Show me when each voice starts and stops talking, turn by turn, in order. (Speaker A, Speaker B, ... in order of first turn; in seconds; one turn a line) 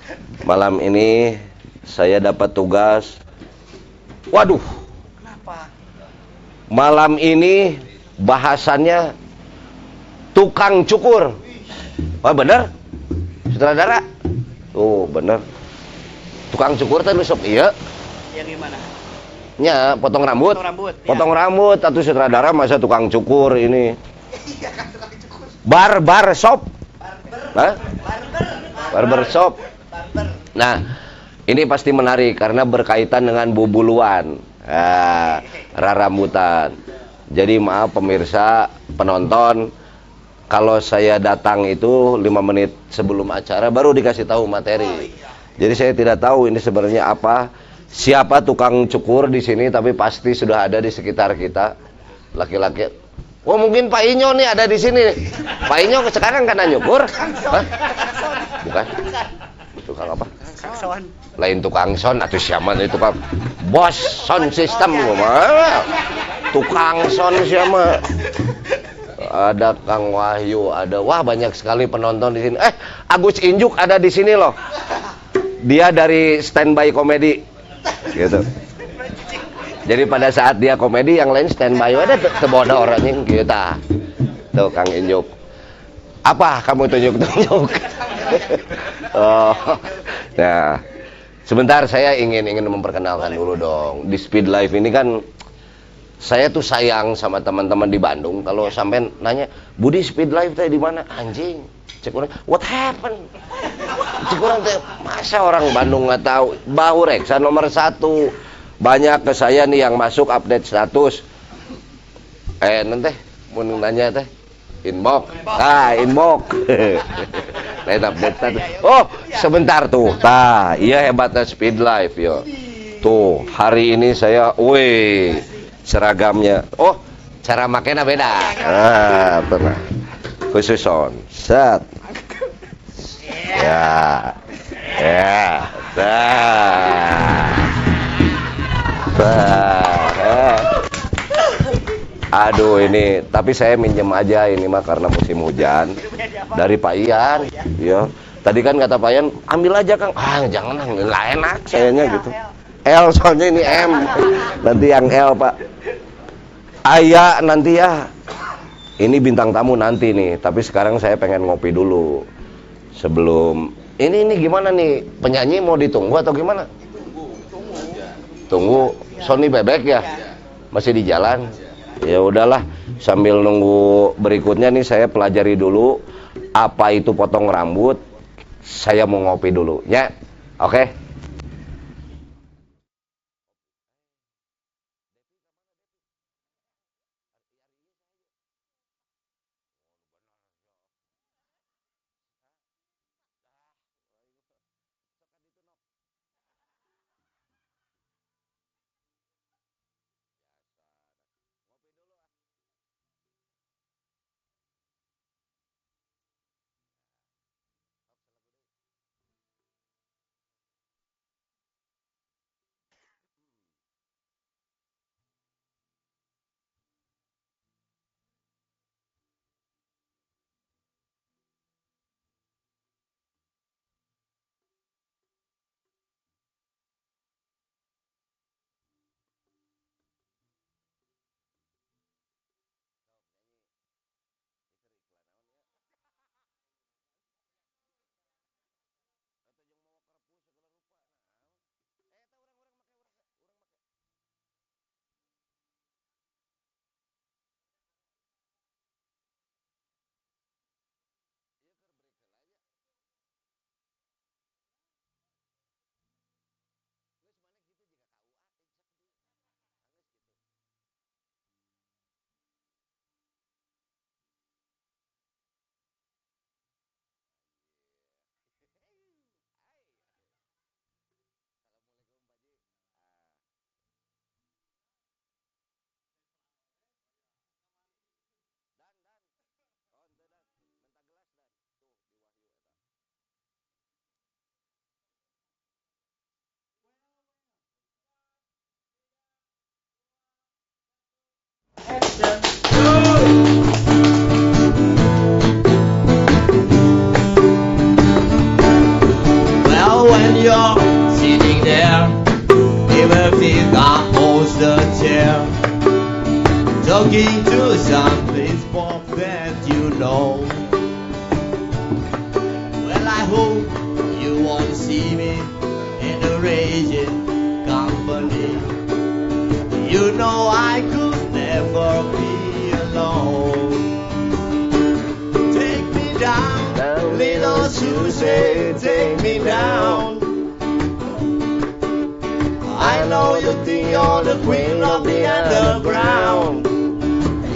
Speaker A: 0.4-3.2
Speaker A: 4.3-4.7
Speaker B: 5.2-5.7
Speaker A: 6.7-9.1
Speaker A: 10.3-11.4
Speaker A: 12.2-12.7
Speaker A: 13.5-14.1
Speaker A: 14.7-15.4
Speaker A: 16.5-17.7
Speaker B: 18.3-18.8
Speaker A: 19.6-24.0
Speaker B: 20.5-21.3
Speaker B: 24.5-25.3
Speaker A: 25.6-26.7
Speaker B: 27.1-29.4
Speaker A: 27.5-27.8
Speaker A: 28.9-29.6
Speaker B: 29.9-30.3
Speaker A: 30.5-30.9
Speaker A: 31.5-36.8
Speaker A: 37.3-39.7
Speaker A: 40.5-51.7
Speaker A: 52.3-52.9
Speaker A: 53.4-57.9
Speaker B: 57.4-59.2
Speaker A: 58.6-59.1
Speaker A: 59.8-60.3
Speaker B: 60.5-61.1
Speaker A: 61.4-65.9
Speaker B: 64.9-65.4
Speaker A: 66.5-68.1
Speaker A: 69.2-74.6
Speaker A: 75.6-77.4
Speaker A: 78.0-78.5
Speaker A: 79.8-83.8
Speaker A: 84.5-85.3
Speaker A: 86.2-90.8
Speaker A: 91.5-95.2
Speaker A: 96.2-103.2
Speaker A: 104.0-111.2
Speaker A: 112.6-114.3
Speaker A: 114.8-122.5
Speaker A: 123.0-129.9
Speaker A: 130.5-131.9
Speaker A: 133.2-137.8
Speaker A: 138.9-140.8
Speaker A: 142.3-146.0
Speaker B: 146.0-146.6
Speaker A: 146.5-155.6
Speaker B: 151.7-152.5
Speaker A: 156.8-158.1
Speaker A: 159.0-162.3
Speaker A: 162.9-166.7
Speaker B: 166.9-168.2
Speaker A: 168.5-170.1
Speaker B: 169.0-169.4
Speaker A: 170.7-176.0
Speaker A: 176.5-178.0
Speaker A: 178.6-180.9
Speaker A: 239.8-240.6
Speaker A: 252.0-252.3
Speaker C: 299.5-302.2
Speaker C: 302.8-305.5
Speaker C: 306.8-310.6
Speaker C: 312.8-318.8
Speaker C: 319.7-324.1
Speaker C: 325.4-330.3
Speaker A: 326.7-330.1
Speaker C: 332.6-336.7
Speaker A: 332.8-336.7